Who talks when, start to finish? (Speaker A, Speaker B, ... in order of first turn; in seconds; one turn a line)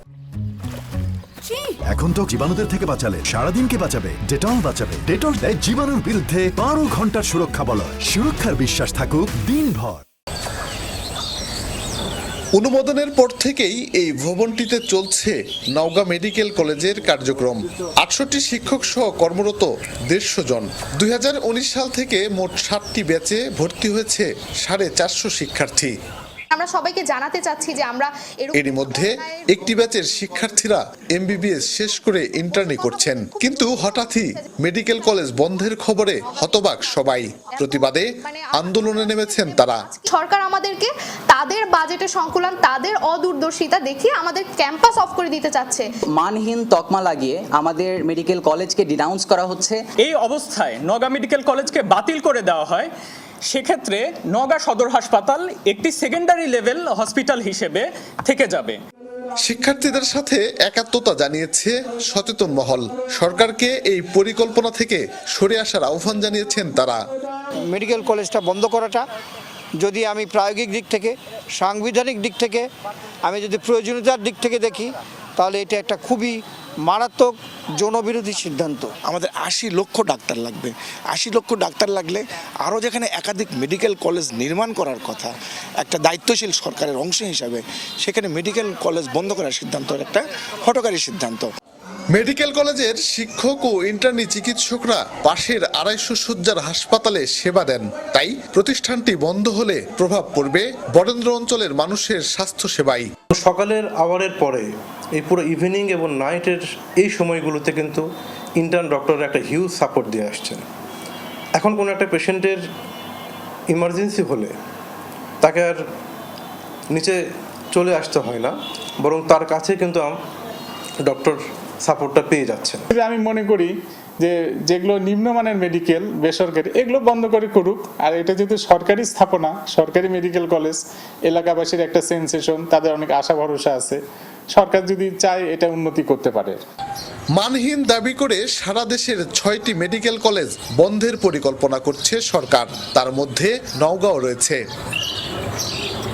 Speaker A: 1.9-10.0
Speaker B: 12.6-25.9
Speaker C: 26.5-29.4
Speaker B: 28.5-39.9
Speaker C: 32.6-34.5
Speaker C: 37.6-45.9
Speaker D: 46.1-49.9
Speaker E: 50.0-52.9
Speaker E: 53.5-58.8
Speaker B: 59.4-67.0
Speaker F: 67.7-69.0
Speaker F: 69.8-72.7
Speaker F: 73.2-78.9
Speaker G: 79.0-85.3
Speaker G: 85.8-91.5
Speaker B: 92.1-103.1
Speaker H: 103.3-108.0
Speaker H: 108.6-110.6
Speaker H: 111.6-112.6
Speaker H: 113.7-114.5
Speaker H: 115.4-115.8
Speaker H: 116.9-120.2
Speaker H: 121.0-122.9
Speaker I: 122.9-134.0
Speaker I: 134.5-136.6
Speaker B: 137.3-144.6